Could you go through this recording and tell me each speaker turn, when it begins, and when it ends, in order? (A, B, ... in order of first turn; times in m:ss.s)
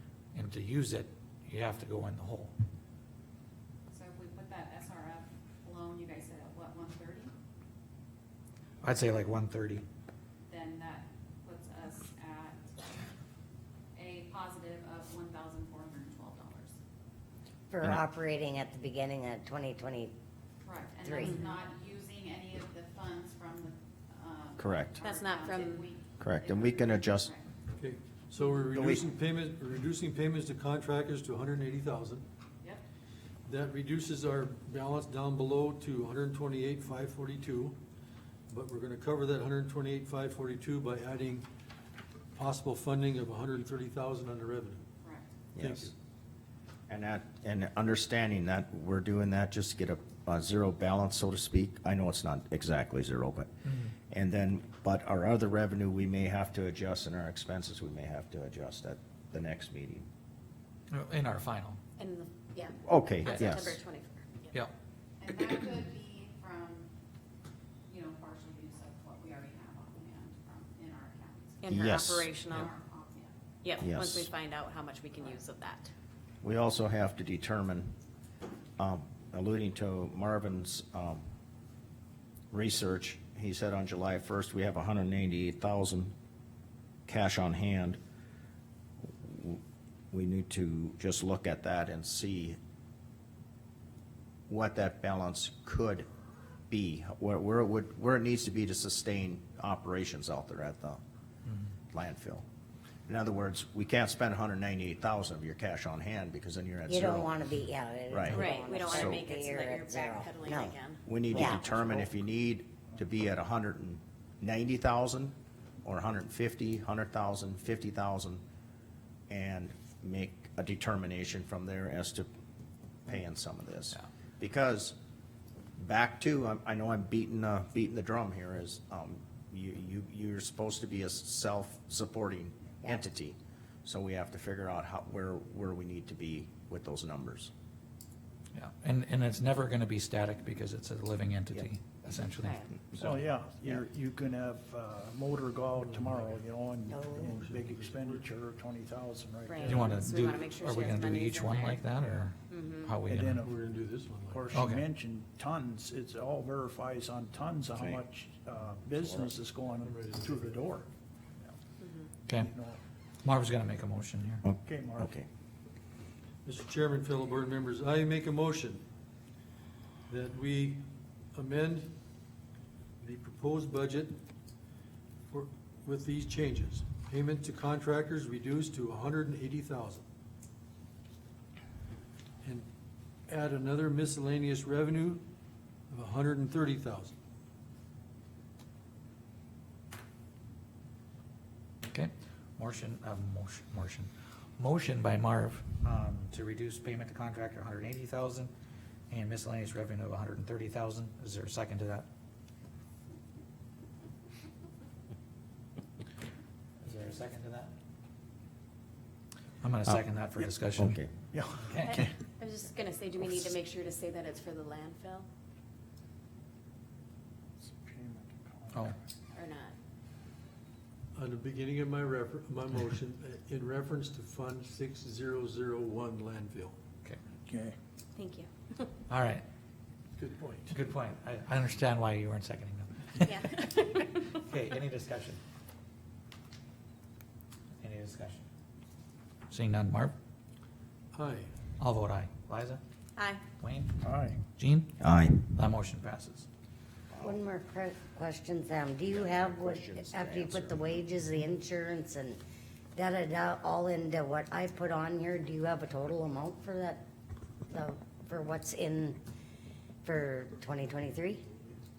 0:00.3-0:02.5 A
0:03.9-0:07.3 B
0:08.8-0:09.8 A
0:10.5-0:12.8 B
0:13.9-0:16.7 B
0:17.7-0:20.1 C
0:20.6-0:27.4 B
0:21.0-0:21.4 C
0:21.2-0:21.5 D
0:24.6-0:25.0 E
0:25.0-0:25.8 D
0:26.2-0:27.3 E
0:27.8-0:32.2 F
0:28.7-0:29.1 E
0:33.4-0:37.8 F
0:38.5-0:41.5 F
0:42.3-0:44.8 F
0:45.0-0:45.3 B
0:45.5-0:45.9 E
0:45.6-0:45.9 F
0:46.9-0:53.5 E
0:53.6-0:53.9 A
0:54.1-1:00.1 E
1:00.9-1:01.8 A
1:02.0-1:04.5 D
1:02.8-1:03.8 E
1:05.2-1:06.9 B
1:07.9-1:11.7 B
1:11.6-1:12.7 D
1:11.6-1:12.3 E
1:12.5-1:13.4 B
1:13.6-1:15.9 D
1:13.8-1:14.3 E
1:15.1-1:15.4 B
1:16.4-1:17.9 E
1:18.8-1:21.2 E
1:22.5-1:26.1 E
1:27.1-1:28.0 E
1:29.2-1:29.6 E
1:30.1-1:32.6 E
1:34.5-1:36.1 E
1:36.7-1:41.0 E
1:41.9-1:42.4 E
1:43.1-1:47.3 E
1:46.9-1:50.8 C
1:48.1-1:49.2 E
1:48.3-1:51.0 D
1:51.0-1:58.4 E
1:51.3-1:51.8 C
1:59.3-2:02.3 E
2:03.0-2:04.9 E
2:05.8-2:17.5 E
2:18.5-2:22.6 A
2:22.4-2:22.7 D
2:22.9-2:23.8 E
2:23.0-2:30.0 G
2:25.8-2:26.4 F
2:26.9-2:27.4 C
2:27.2-2:28.3 F
2:29.4-2:31.9 D
2:29.6-2:33.5 A
2:32.5-2:32.9 D
2:33.0-2:33.6 G
2:33.4-2:34.5 F
2:34.2-2:40.9 G
2:34.5-2:34.8 A
2:39.0-2:39.3 E
2:39.8-2:40.6 F
2:41.8-2:42.1 D
2:42.3-2:42.5 A
2:42.4-2:42.8 G
2:43.2-2:44.4 A
2:44.4-2:45.3 E
2:44.6-2:45.2 G
2:46.4-2:48.8 F
2:50.1-2:51.9 F
2:53.0-2:54.1 F
2:55.3-3:00.0 F
3:02.4-3:02.7 F
3:03.3-3:05.2 F
3:05.9-3:07.1 F
3:11.9-3:18.5 A
3:19.1-3:22.1 A
3:26.8-3:27.7 A
3:29.6-3:31.0 A
3:30.8-3:31.1 E
3:31.3-3:32.2 G
3:31.6-3:32.1 A
3:31.8-3:35.3 D
3:37.6-3:39.0 G
3:39.3-3:39.7 D
3:41.1-3:46.8 F
3:47.5-3:47.8 G
3:48.1-3:48.9 D
3:49.1-3:49.4 A
3:50.2-3:50.7 G
3:50.7-3:53.6 A
3:53.2-3:53.8 D
3:54.3-3:55.4 A
3:57.8-3:58.4 A
3:59.5-4:00.1 A
4:01.1-4:01.5 F
4:01.8-4:02.8 A
4:03.2-4:03.4 D
4:03.6-4:04.0 A
4:04.0-4:04.4 G
4:04.5-4:06.5 A
4:05.0-4:05.4 E
4:07.1-4:07.4 E
4:07.2-4:12.4 C
4:09.1-4:11.0 E
4:12.9-4:17.0 C
4:17.7-4:19.2 C
4:20.0-4:21.4 C